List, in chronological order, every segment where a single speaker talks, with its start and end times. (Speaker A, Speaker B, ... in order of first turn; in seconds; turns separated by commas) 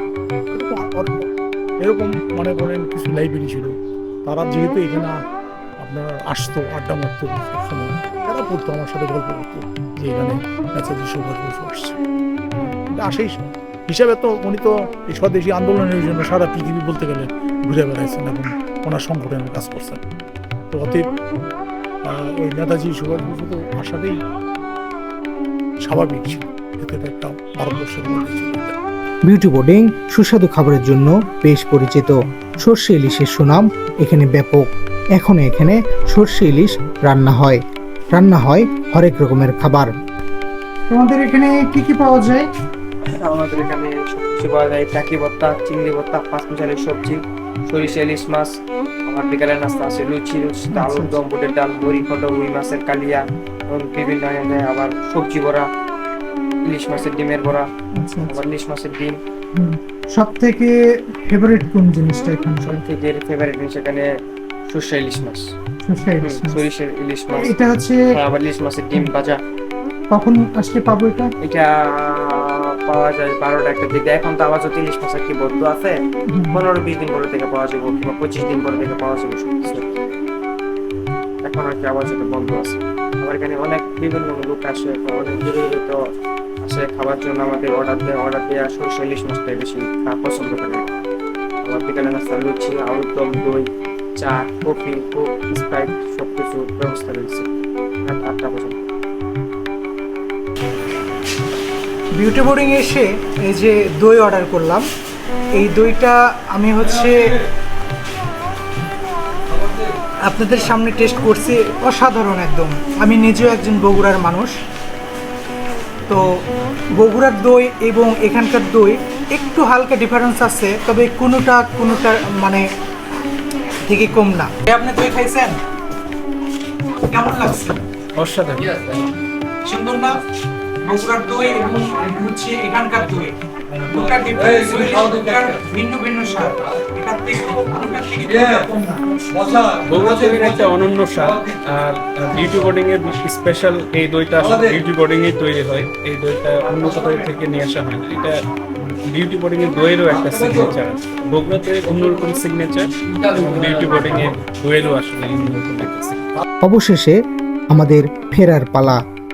Speaker A: 0.5-1.3, Speaker A: 1.8-5.2, Speaker A: 5.8-12.0, Speaker A: 12.9-20.0, Speaker A: 20.7-21.1, Speaker A: 22.1-24.2, Speaker A: 25.8-28.8, Speaker B: 29.3-37.6, Speaker B: 38.1-39.9, Speaker C: 40.9-42.5, Speaker D: 43.2-48.5, Speaker D: 49.1-55.7, Speaker C: 50.7-51.1, Speaker D: 56.7-57.7, Speaker C: 58.0-58.3, Speaker D: 58.3-59.2, Speaker C: 59.6-62.8, Speaker D: 62.6-64.1, Speaker D: 64.7-65.5, Speaker C: 65.8-66.6, Speaker D: 66.2-67.6, Speaker C: 67.4-68.0, Speaker D: 68.1-69.4, Speaker C: 70.1-71.3, Speaker D: 71.4-76.0, Speaker C: 76.3-76.6, Speaker D: 76.5-80.0, Speaker D: 81.4-86.0, Speaker D: 86.6-90.9, Speaker D: 91.6-93.7, Speaker D: 94.2-97.5, Speaker D: 98.1-98.9, Speaker C: 102.1-104.9, Speaker C: 105.5-107.4, Speaker C: 110.2-114.5, Speaker C: 117.0-122.7, Speaker C: 123.9-125.6, Speaker C: 127.0-127.8, Speaker E: 128.2-128.8, Speaker C: 129.7-130.2, Speaker C: 130.8-139.0, Speaker E: 139.8-148.4, Speaker E: 149.1-156.3, Speaker B: 156.7-157.2, Speaker B: 157.7-159.0